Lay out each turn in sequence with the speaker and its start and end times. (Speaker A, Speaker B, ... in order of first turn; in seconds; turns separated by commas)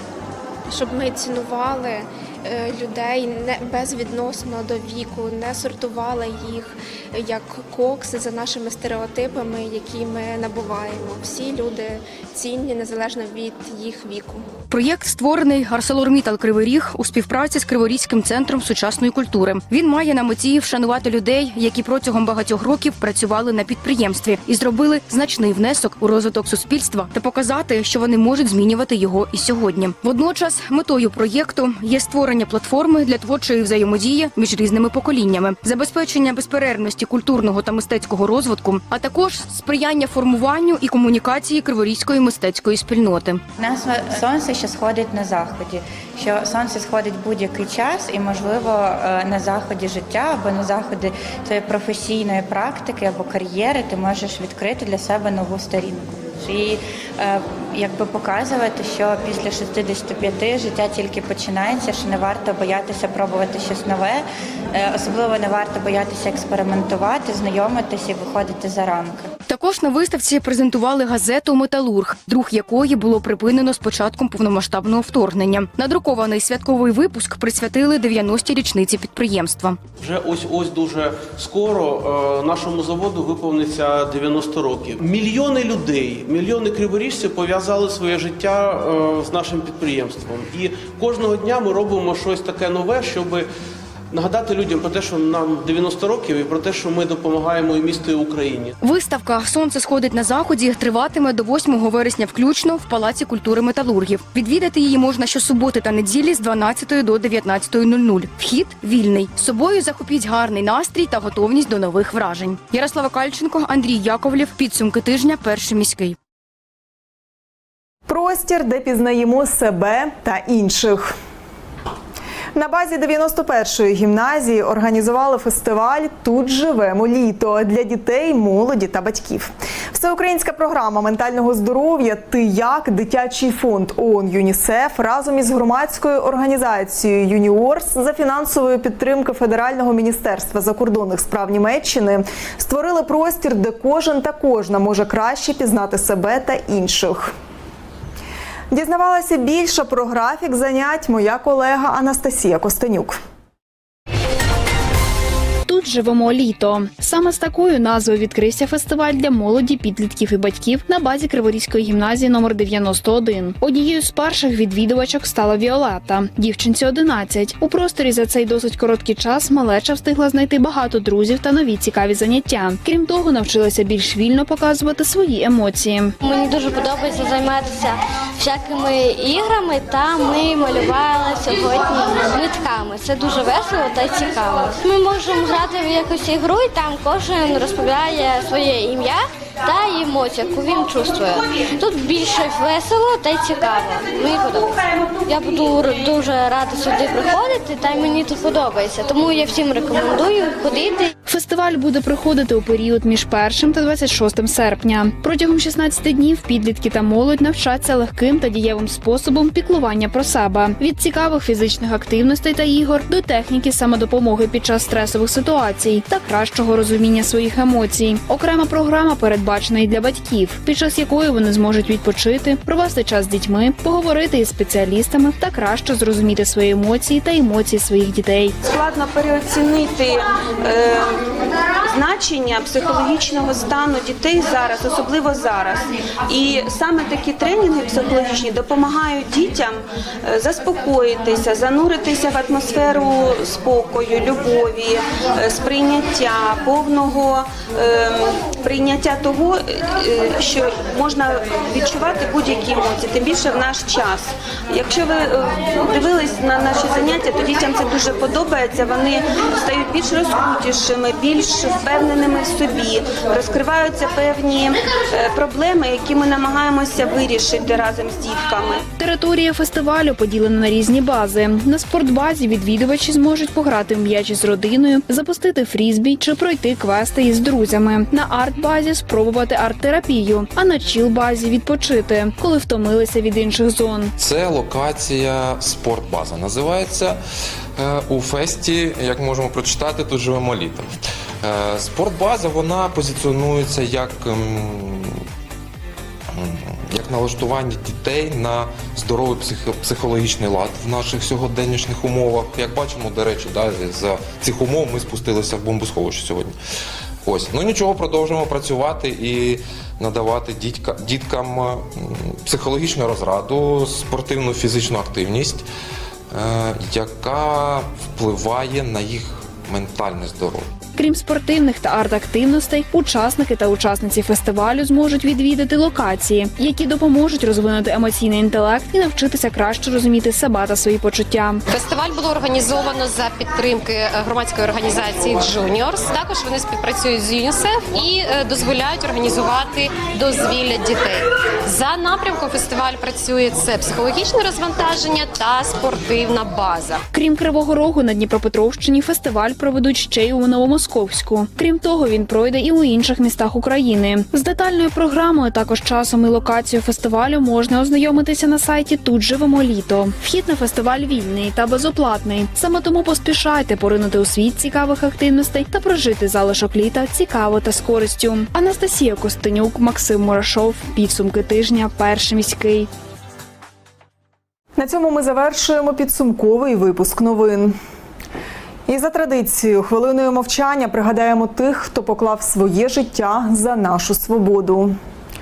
Speaker A: 0.7-14.4, Speaker B: 14.7-43.4, Speaker C: 43.6-69.3, Speaker B: 69.5-79.8, Speaker D: 80.0-93.5, Speaker D: 94.1-98.7, Speaker B: 98.8-116.2, Speaker E: 118.1-121.1, Speaker E: 122.5-147.3, Speaker E: 148.7-153.2, Speaker F: 155.7-176.2, Speaker G: 176.2-201.1, Speaker F: 201.3-228.6, Speaker H: 228.6-231.2, Speaker H: 231.9-268.8, Speaker F: 269.0-284.1, Speaker I: 284.2-287.2, Speaker I: 287.8-295.2, Speaker I: 296.3-306.6, Speaker I: 307.2-315.7, Speaker I: 316.3-320.7, Speaker F: 321.0-331.6, Speaker J: 331.7-347.0, Speaker F: 347.1-372.9, Speaker E: 374.8-377.8, Speaker E: 378.9-385.0